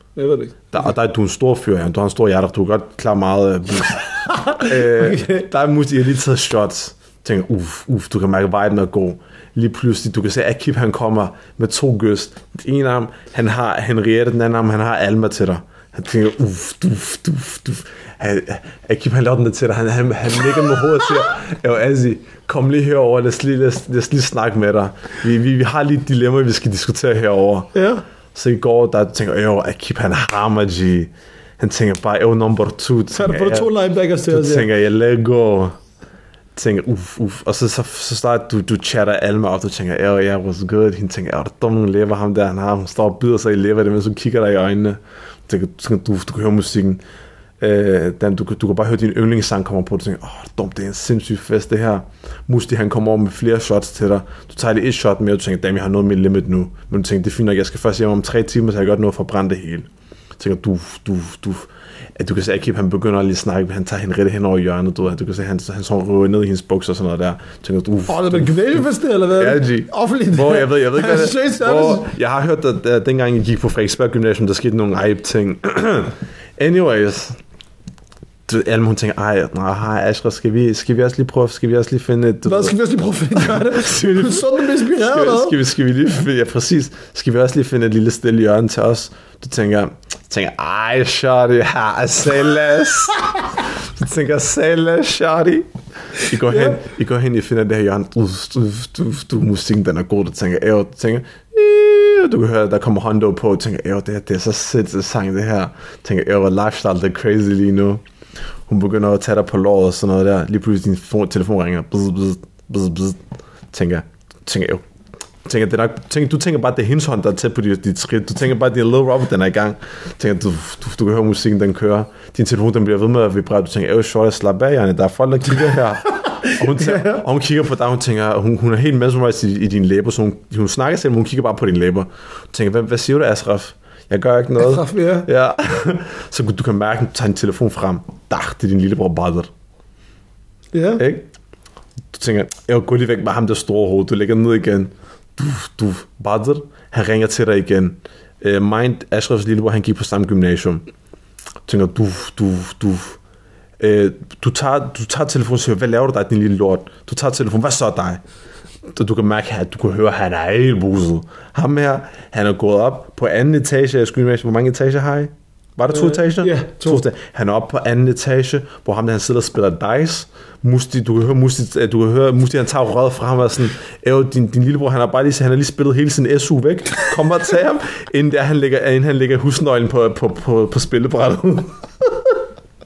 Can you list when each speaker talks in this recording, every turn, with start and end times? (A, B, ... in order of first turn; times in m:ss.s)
0:00.2-0:00.7 A
0:00.7-0:27.7 B
0:04.2-0:05.5 A
0:27.7-0:28.0 A
0:28.3-0:33.7 B
0:33.1-0:34.7 A
0:34.3-0:35.8 B
0:36.6-0:47.0 B
0:47.6-1:17.4 B
1:08.1-1:12.1 A
1:18.5-1:22.8 B
1:22.4-1:25.6 A
1:23.3-1:48.0 B
1:36.5-1:36.8 A
1:48.7-1:53.2 B
1:53.7-1:54.8 B
1:55.4-2:19.5 B
2:06.2-2:07.2 A
2:14.6-2:15.3 A
2:20.7-2:21.0 A
2:21.0-2:21.3 B
2:22.1-2:30.8 B
2:31.7-2:33.2 B
2:33.8-2:38.2 B
2:38.9-3:01.8 B
2:45.9-2:47.0 A